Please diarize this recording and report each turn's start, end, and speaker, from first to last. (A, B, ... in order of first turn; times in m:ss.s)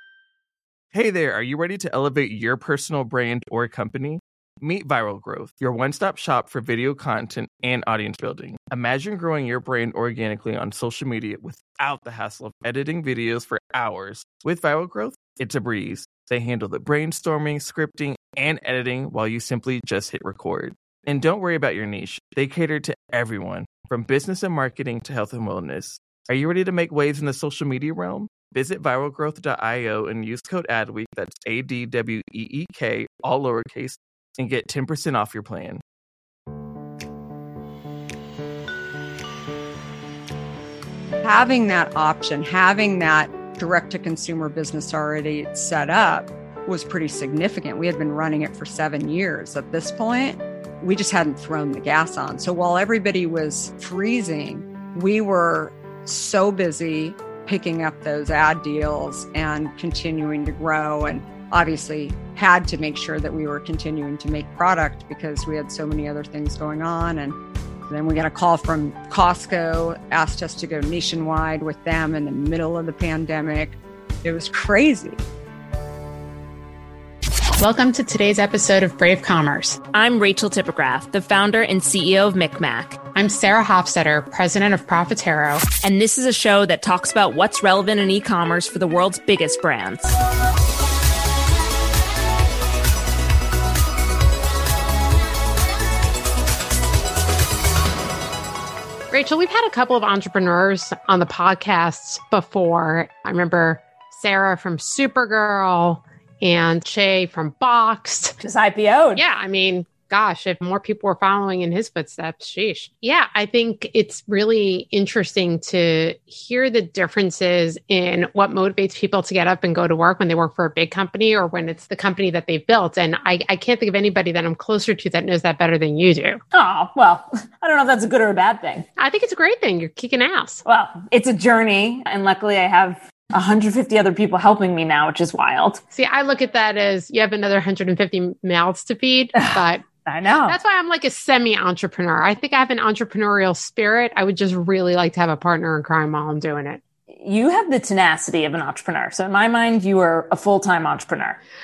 0:00.9-0:35.8 A
0:41.2-1:15.2 B
1:17.6-1:19.8 C
1:19.9-1:23.0 D
1:23.2-1:25.7 C
1:25.8-1:30.2 D
1:39.1-1:48.4 C
1:48.4-1:49.2 D
1:49.2-2:06.4 C
2:06.5-2:08.9 D
2:09.0-2:10.6 C
2:10.6-2:15.8 D
2:15.9-2:19.9 C
2:19.4-2:20.6 D
2:20.4-2:26.8 C
2:27.1-2:31.4 D